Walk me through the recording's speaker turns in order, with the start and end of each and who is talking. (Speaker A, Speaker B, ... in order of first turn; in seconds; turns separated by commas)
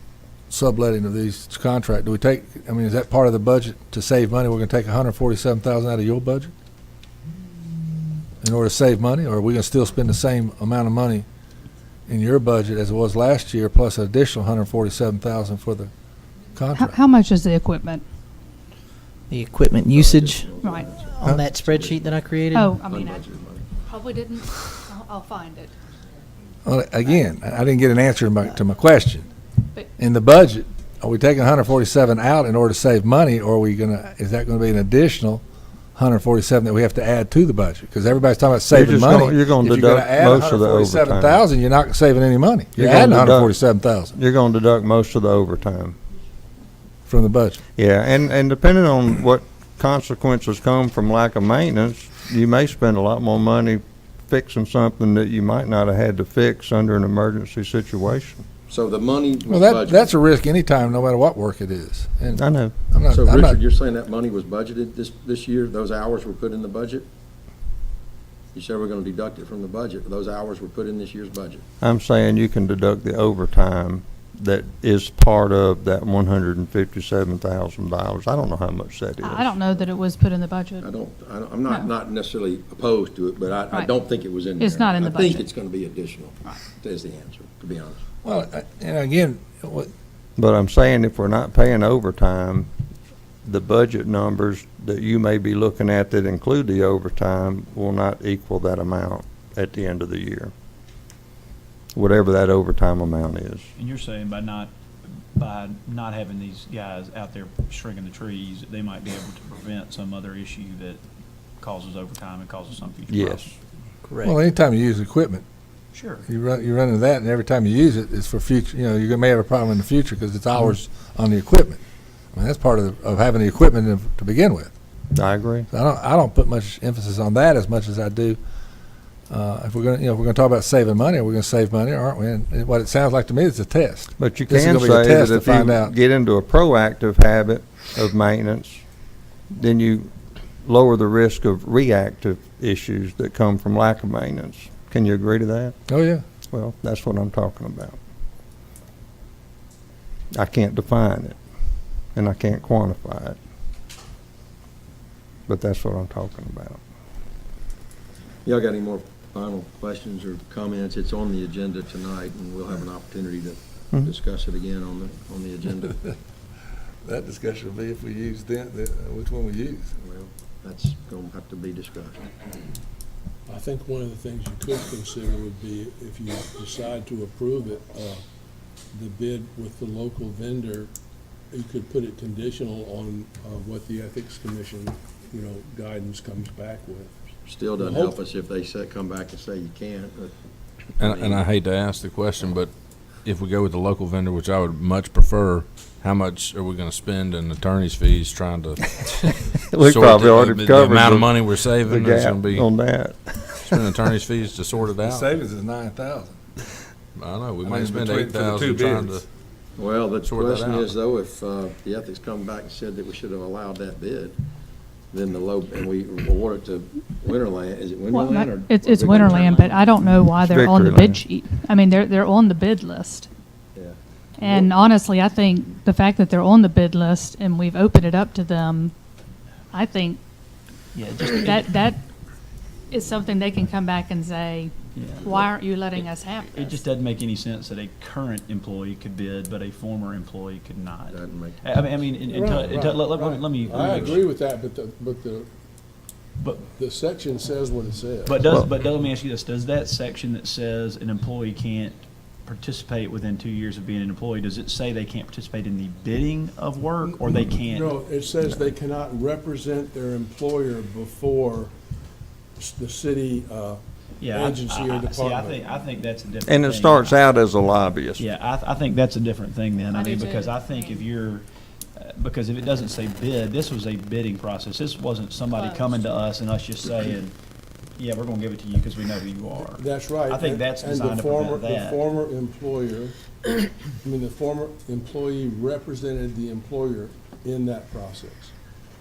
Speaker A: 0.5-6.5, Speaker A: 8.4-11.3, Speaker A: 12.1-15.9, Speaker A: 16.6-17.0, Speaker B: 16.7-18.0, Speaker C: 19.3-20.5, Speaker D: 19.9-22.2, Speaker B: 20.6-20.9, Speaker C: 21.1-22.8, Speaker B: 22.5-23.2, Speaker D: 22.8-23.7, Speaker B: 23.9-25.7, Speaker A: 26.6-29.3, Speaker A: 30.0-35.4, Speaker A: 36.0-44.1, Speaker E: 38.7-41.4, Speaker E: 42.8-43.6, Speaker E: 44.1-46.0, Speaker A: 47.1-47.6, Speaker E: 47.8-58.4, Speaker D: 58.7-60.1, Speaker A: 59.5-63.6, Speaker E: 62.3-62.7, Speaker D: 63.1-67.1, Speaker D: 68.5-71.7, Speaker E: 71.8-79.5, Speaker B: 79.2-81.0, Speaker D: 80.8-88.0, Speaker B: 81.7-81.9, Speaker B: 84.6-85.5, Speaker A: 88.2-89.9, Speaker E: 90.4-92.7, Speaker E: 93.4-100.5, Speaker E: 101.9-103.7, Speaker F: 103.8-104.7, Speaker F: 105.3-111.0, Speaker F: 111.6-113.5, Speaker E: 113.1-113.5, Speaker C: 114.1-114.3, Speaker A: 114.2-115.4, Speaker F: 115.9-116.3, Speaker A: 116.3-121.8, Speaker A: 122.3-124.7, Speaker E: 125.1-125.7, Speaker A: 125.7-128.4, Speaker A: 129.3-135.9, Speaker E: 134.2-138.8, Speaker E: 139.5-140.1, Speaker E: 140.6-145.8, Speaker A: 145.9-146.2, Speaker E: 146.5-148.0, Speaker E: 150.3-151.4, Speaker E: 152.2-153.4, Speaker E: 155.5-156.8, Speaker D: 158.4-166.0, Speaker A: 167.0-169.9, Speaker D: 170.0-172.2, Speaker G: 173.5-178.2, Speaker G: 178.9-180.9, Speaker G: 181.5-187.2, Speaker D: 187.5-190.3, Speaker G: 187.8-188.2, Speaker D: 191.0-191.4, Speaker H: 191.0-199.0, Speaker E: 199.7-203.8, Speaker H: 199.8-202.7, Speaker H: 203.6-205.3, Speaker A: 205.0-206.4, Speaker H: 207.2-209.2, Speaker A: 207.6-209.2, Speaker D: 209.8-214.4, Speaker H: 210.2-210.9, Speaker D: 215.1-220.0, Speaker B: 218.1-223.3, Speaker E: 220.4-221.2, Speaker D: 223.8-224.7, Speaker B: 224.4-228.9, Speaker B: 229.7-230.2, Speaker F: 230.9-231.8, Speaker B: 231.3-232.0, Speaker B: 232.9-236.8, Speaker F: 234.9-244.3, Speaker D: 241.1-241.6, Speaker G: 242.3-245.5, Speaker D: 243.8-244.1, Speaker F: 246.4-246.7, Speaker G: 246.7-248.5, Speaker F: 248.3-257.9, Speaker G: 257.7-261.7, Speaker G: 262.6-263.8, Speaker F: 264.2-267.5, Speaker G: 264.3-265.7, Speaker E: 266.4-268.3, Speaker F: 268.2-277.3, Speaker B: 269.9-271.1, Speaker B: 275.5-276.1, Speaker F: 278.0-282.0, Speaker G: 279.5-288.5